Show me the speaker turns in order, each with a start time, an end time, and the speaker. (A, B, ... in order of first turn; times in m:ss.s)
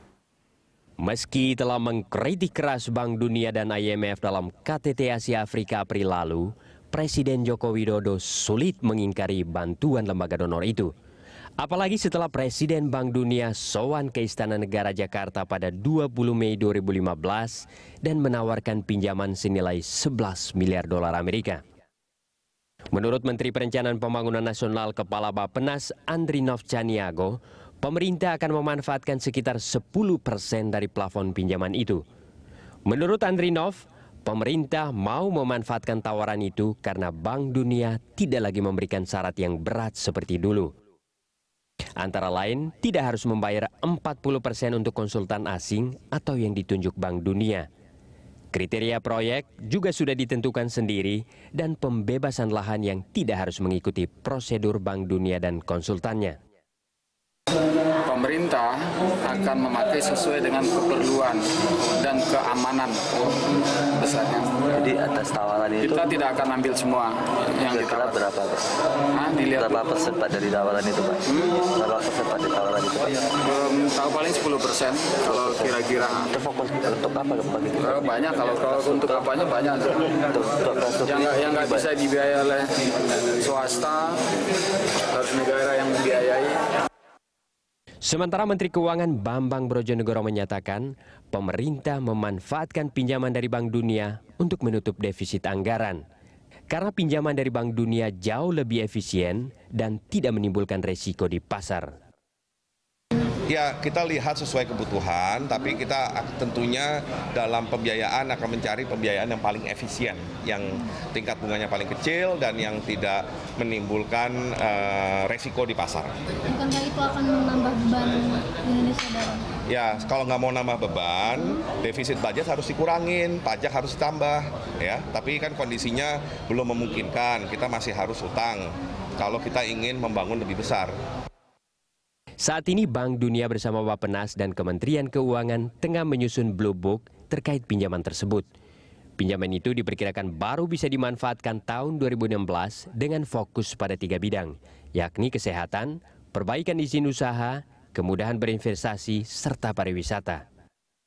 0:01.0-0:10.9 A
0:11.6-0:21.6 A
0:22.9-0:32.0 A
0:32.8-0:40.7 A
0:42.0-0:47.7 A
0:48.5-0:56.4 A
0:58.0-1:01.4 B
1:02.0-1:03.4 B
1:03.9-1:04.6 B
1:04.7-1:06.1 C
1:05.8-1:08.3 B
1:07.7-1:08.6 C
1:09.1-1:09.9 B
1:09.6-1:13.2 C
1:11.2-1:11.6 B
1:13.4-1:16.3 B
1:15.2-1:15.7 C
1:16.3-1:18.0 C
1:17.8-1:20.2 B
1:18.6-1:19.2 C
1:20.3-1:21.8 C
1:20.9-1:24.2 B
1:25.1-1:26.6 B
1:28.0-1:36.0 A
1:36.7-1:41.9 A
1:43.5-1:56.1 D
1:56.5-1:59.4 E
1:59.7-2:11.0 D
2:12.4-2:18.4 A
2:19.2-2:30.4 A